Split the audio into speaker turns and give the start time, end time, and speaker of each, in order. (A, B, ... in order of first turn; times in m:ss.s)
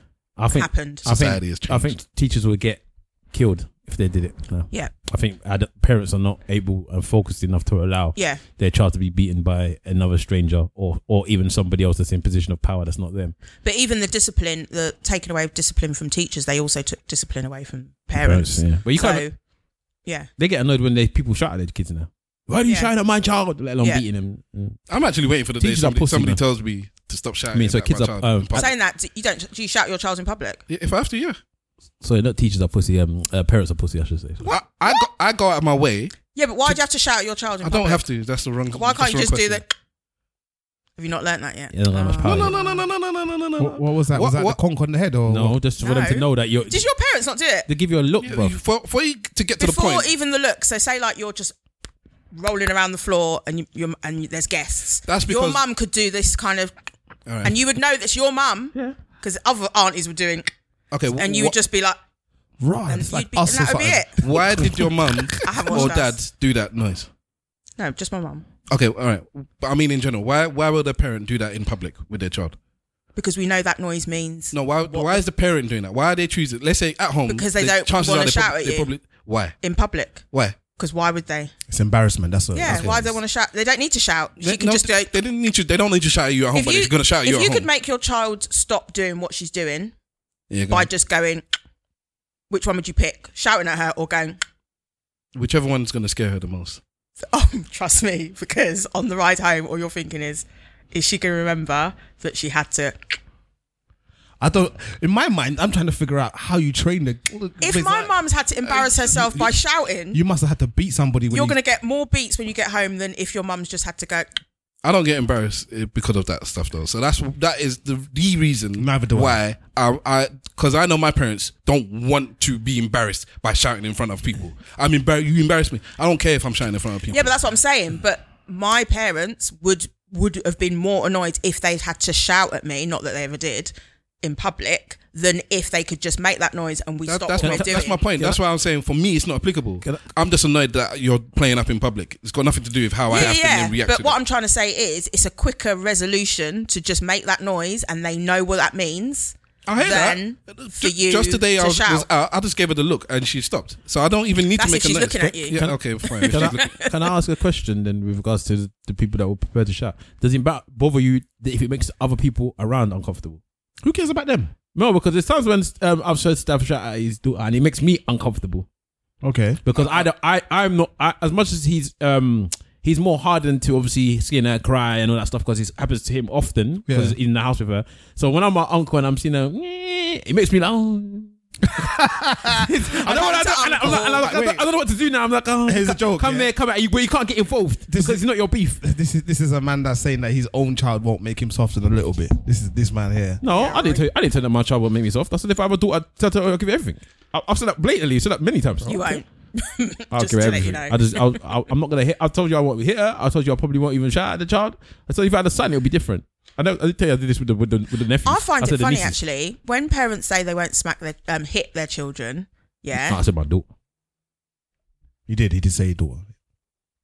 0:00.4-0:13.3 A
0:00.5-0:01.0 B
0:01.0-0:02.0 C
0:08.2-0:08.4 B
0:13.6-0:19.4 B
0:18.2-0:19.2 A
0:20.4-0:24.8 A
0:22.6-0:22.9 B
0:24.9-0:28.7 C
0:25.6-0:26.4 A
0:27.5-0:28.7 A
0:28.5-0:30.6 B
0:30.7-0:31.4 C
0:32.0-0:34.5 A
0:34.4-0:35.0 B
0:34.5-0:36.8 C
0:36.3-0:38.0 B
0:37.6-0:39.6 C
0:38.7-0:39.7 B
0:41.0-0:42.8 B
0:41.7-0:42.7 A
0:42.2-0:44.6 C
0:43.6-0:45.6 D
0:45.3-0:46.9 A
0:45.8-0:47.7 B
0:47.7-0:48.6 A
0:48.2-0:50.1 C
0:49.6-0:51.5 B
0:52.3-0:56.7 B
0:55.1-0:55.6 C
0:57.3-0:57.5 C
0:57.4-1:00.5 B
1:00.9-1:01.6 C
1:01.1-1:02.0 B
1:02.6-1:05.9 D
1:02.9-1:04.4 B
1:04.2-1:07.1 C
1:05.4-1:06.2 B
1:07.8-1:08.5 B
1:08.7-1:12.6 C
1:13.2-1:15.2 B
1:14.5-1:19.6 C
1:17.3-1:18.9 B
1:19.6-1:21.5 B
1:20.3-1:20.6 C
1:21.7-1:23.1 D
1:22.5-1:25.1 B
1:22.6-1:23.1 C
1:24.4-1:27.7 C
1:26.5-1:29.9 B
1:30.5-1:30.9 C
1:30.7-1:31.4 B
1:32.5-1:34.4 B
1:35.3-1:36.8 C
1:37.3-1:43.0 B
1:44.4-1:48.1 D
1:47.6-1:50.2 B
1:48.6-1:49.3 C
1:50.1-1:51.6 D
1:51.3-1:54.3 B
1:54.8-2:07.3 C
1:58.8-1:59.4 D
2:07.1-2:18.0 B
2:17.0-2:24.2 C
2:17.4-2:18.4 A
2:23.1-2:32.0 B
2:29.6-2:36.8 C
2:34.5-2:37.1 B
2:35.2-2:43.4 A
2:43.8-2:44.5 D
2:44.7-2:48.6 A
2:49.2-2:49.6 D
2:49.6-3:01.3 A
2:49.7-2:50.1 C
2:56.9-2:57.1 D
3:01.7-3:04.6 D
3:02.5-3:08.8 A
3:03.0-3:04.2 B
3:05.6-3:06.5 D
3:07.9-3:08.2 D
3:08.8-3:13.4 D
3:13.4-3:19.2 A
3:13.5-3:14.0 B
3:18.8-3:21.2 B
3:20.1-3:29.2 A
3:28.2-3:33.2 B
3:32.9-3:33.6 A
3:35.3-3:36.3 D